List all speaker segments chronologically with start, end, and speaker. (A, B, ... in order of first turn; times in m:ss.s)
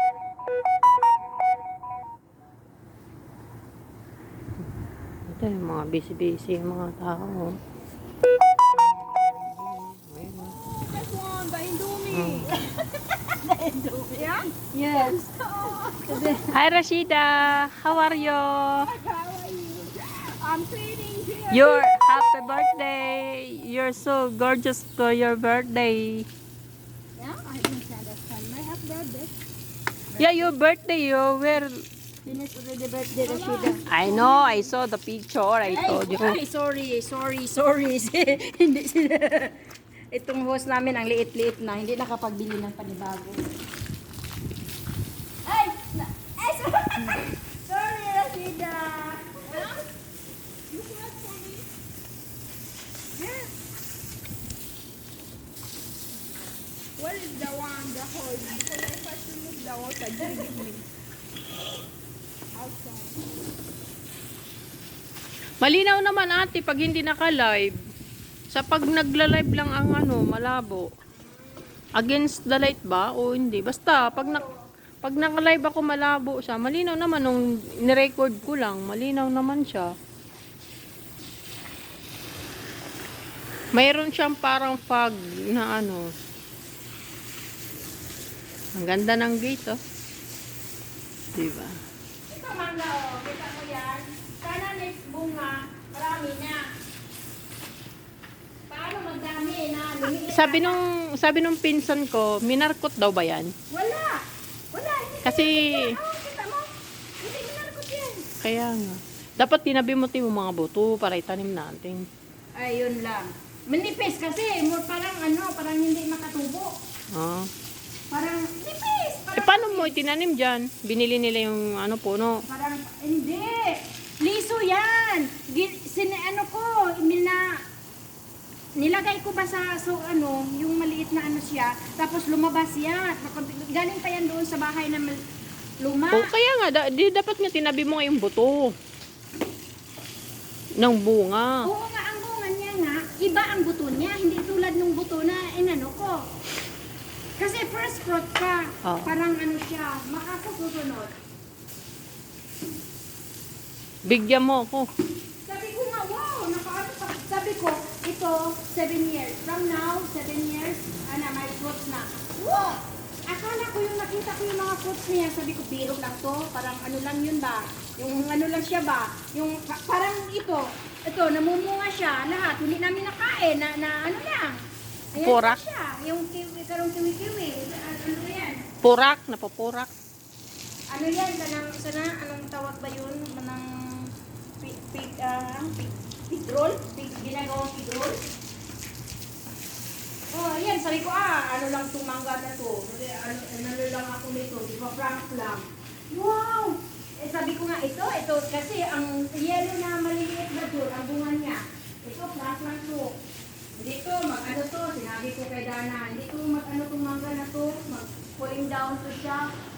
0:05.4-0:07.6 A
0:09.7-0:10.6 A
0:10.4-0:12.6 B
0:12.1-0:12.5 A
0:13.3-0:16.4 C
0:14.2-0:16.4 B
0:16.5-0:18.8 A
0:18.0-0:21.9 B
0:21.5-0:26.2 A
0:27.2-0:27.6 C
0:27.6-0:29.3 B
0:30.2-0:31.7 A
0:32.3-0:33.8 C
0:33.1-0:34.6 B
0:33.9-0:36.4 A
0:35.6-0:39.6 C
0:40.1-0:43.4 C
0:45.4-0:49.8 C
0:50.7-0:51.7 B
0:53.2-0:53.5 B
0:57.0-1:00.9 B
1:02.6-1:03.2 B
1:05.6-1:07.7 A
1:08.5-1:10.8 A
1:12.0-1:14.5 A
1:15.0-1:19.9 A
1:23.8-1:26.0 A
1:28.8-1:29.8 A
1:31.4-1:31.7 A
1:32.3-1:36.6 C
1:38.7-1:40.8 C
1:40.3-1:43.5 A
1:43.7-1:46.7 C
1:45.2-1:45.9 A
1:47.2-1:48.3 C
1:48.4-1:52.0 A
1:52.6-1:56.7 C
1:57.1-1:57.5 A
1:58.1-1:59.9 C
1:59.4-2:02.4 A
2:02.5-2:07.6 C
2:08.8-2:15.2 C
2:15.8-2:16.3 C
2:16.1-2:18.7 A
2:20.8-2:21.6 A
2:21.6-2:26.2 C
2:27.4-2:31.1 C
2:28.8-2:29.1 A
2:34.1-2:34.9 A
2:35.5-2:54.6 C
2:55.1-2:58.6 C
2:55.2-2:55.6 A
2:58.8-2:59.9 A
3:00.9-3:04.1 C
3:04.6-3:08.2 C
3:10.3-3:23.1 C
3:23.8-3:29.4 C